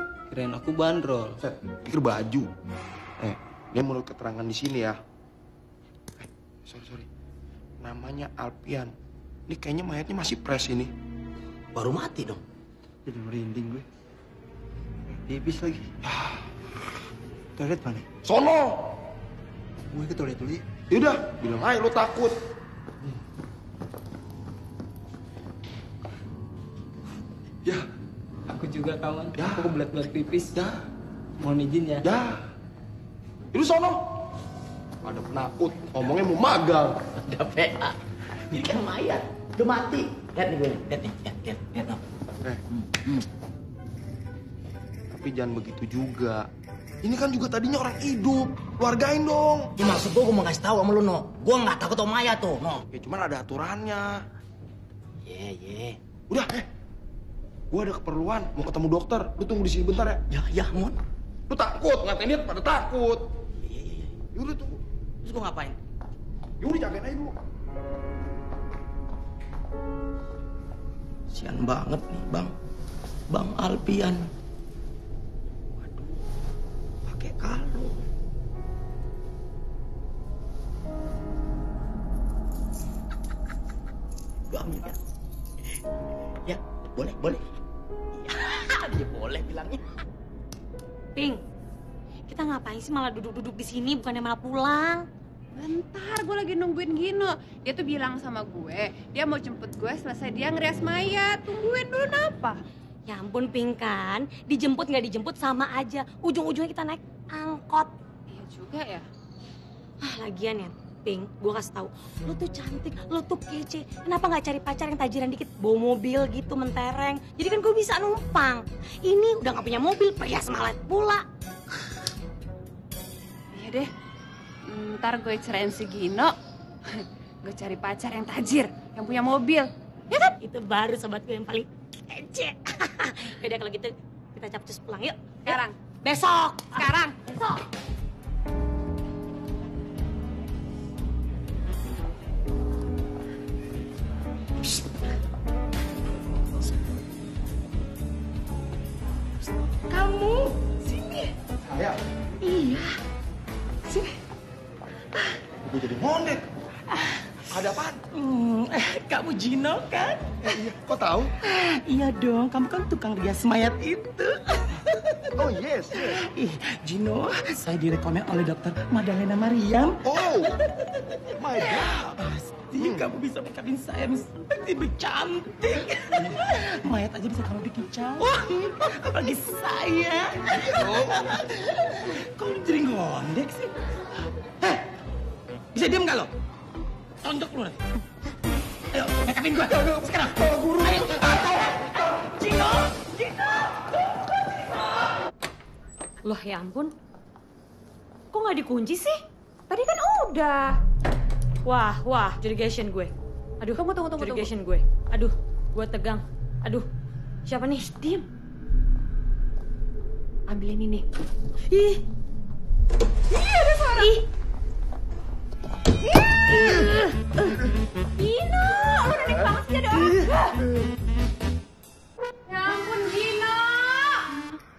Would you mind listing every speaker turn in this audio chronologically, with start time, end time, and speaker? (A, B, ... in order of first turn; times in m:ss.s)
0:00.3-0:01.3 A
0:01.8-0:02.5 B
0:03.2-0:05.0 B
0:06.2-0:07.1 B
0:07.8-0:08.9 B
0:09.5-0:10.9 B
0:11.7-0:12.4 C
0:13.0-0:13.8 D
0:15.2-0:15.8 D
0:16.0-0:16.4 B
0:17.6-0:18.0 D
0:18.2-0:18.9 B
0:19.9-0:20.6 D
0:20.9-0:22.4 B
0:28.5-0:30.5 A
0:29.4-0:29.7 B
0:31.4-0:32.1 A
0:32.0-0:32.4 B
0:33.5-0:34.0 B
0:35.0-0:37.0 B
0:37.3-0:37.8 C
0:38.7-0:39.0 E
0:39.6-0:40.0 E
0:40.4-0:42.0 C
0:45.2-0:46.5 B
0:47.0-0:49.7 B
0:49.8-0:52.8 C
0:52.9-0:54.1 B
0:55.2-0:56.0 C
0:56.3-0:56.6 B
0:57.7-1:00.2 B
1:00.3-1:01.0 C
1:01.5-1:03.2 B
1:03.6-1:04.1 C
1:04.3-1:04.8 B
1:05.2-1:05.8 C
1:06.6-1:07.3 B
1:11.3-1:12.5 C
1:13.3-1:14.2 C
1:17.2-1:17.8 C
1:24.5-1:24.9 C
1:26.5-1:27.4 C
1:28.7-1:29.8 C
1:32.3-1:35.0 F
1:35.6-1:42.6 G
1:43.1-1:47.9 F
1:48.3-1:49.0 G
1:50.0-2:01.2 F
2:03.5-2:03.9 G
2:04.7-2:06.3 G
2:06.9-2:10.3 G
2:10.4-2:15.6 F
2:15.4-2:15.7 G
2:16.2-2:16.8 F
2:31.7-2:32.0 B
2:35.7-2:36.4 B
2:37.5-2:38.0 B
2:38.1-2:40.2 E
2:40.4-2:41.3 B
2:41.5-2:44.3 E
2:45.4-2:46.1 B
2:46.1-2:49.9 E
2:50.0-2:50.5 B
2:51.6-3:01.1 E
2:52.8-2:53.0 B
3:00.6-3:01.2 B
3:02.4-3:03.7 E
3:05.7-3:06.3 E
3:07.2-3:07.7 E
3:09.0-3:10.4 E
3:16.2-3:16.9 F
3:18.3-3:19.2 F
3:19.7-3:20.7 G
3:21.6-3:26.8 F
3:23.8-3:24.5 G
3:27.4-3:28.2 F
3:30.5-3:31.0 G
3:31.7-3:32.0 F
3:33.3-3:34.2 G
3:34.0-3:34.2 F
3:36.6-3:37.0 F
3:36.7-3:37.0 G
3:38.2-3:40.5 G
3:42.5-3:44.4 G